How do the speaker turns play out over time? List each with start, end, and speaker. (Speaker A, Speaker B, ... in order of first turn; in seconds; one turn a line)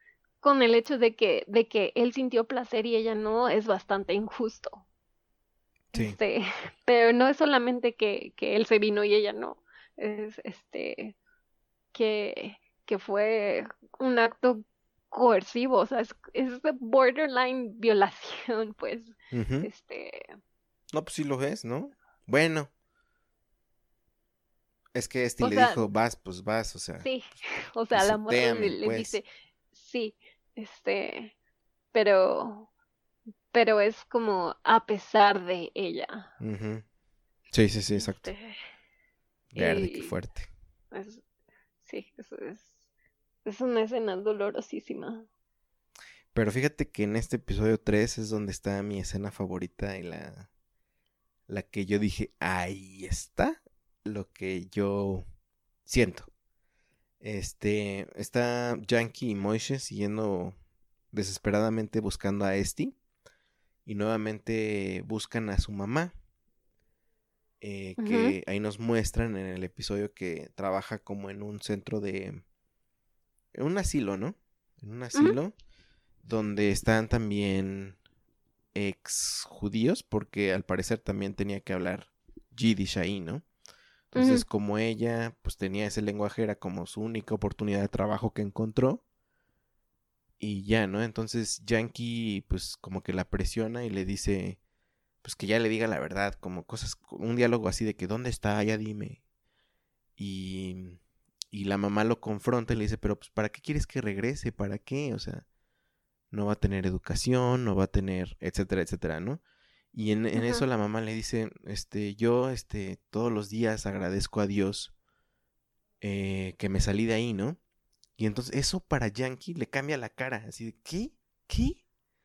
Speaker A: 0.4-4.8
Speaker B: 5.9-6.2
Speaker A: 5.9-11.2
Speaker A: 11.9-20.4
Speaker B: 19.3-19.7
Speaker B: 20.9-22.7
Speaker B: 24.9-27.1
Speaker A: 25.4-25.8
Speaker A: 27.0-31.3
Speaker B: 27.9-29.2
Speaker A: 31.9-32.7
Speaker A: 33.5-36.3
Speaker B: 36.4-36.8
Speaker B: 37.5-38.3
Speaker A: 38.0-38.6
Speaker B: 39.5-40.5
Speaker A: 39.5-40.1
Speaker A: 40.9-41.2
Speaker A: 41.8-42.8
Speaker A: 43.5-45.3
Speaker B: 46.3-50.5
Speaker B: 51.5-55.2
Speaker B: 55.9-56.3
Speaker B: 57.2-60.6
Speaker B: 61.1-63.0
Speaker B: 63.9-66.1
Speaker B: 67.6-72.4
Speaker A: 68.0-68.4
Speaker B: 73.5-75.5
Speaker B: 76.2-78.0
Speaker B: 78.7-83.4
Speaker B: 84.1-89.0
Speaker A: 84.2-84.5
Speaker B: 90.4-94.6
Speaker B: 95.2-99.2
Speaker B: 100.2-105.5
Speaker B: 106.3-109.4
Speaker B: 109.9-114.9
Speaker A: 110.4-110.6
Speaker B: 116.0-117.6
Speaker B: 118.2-121.8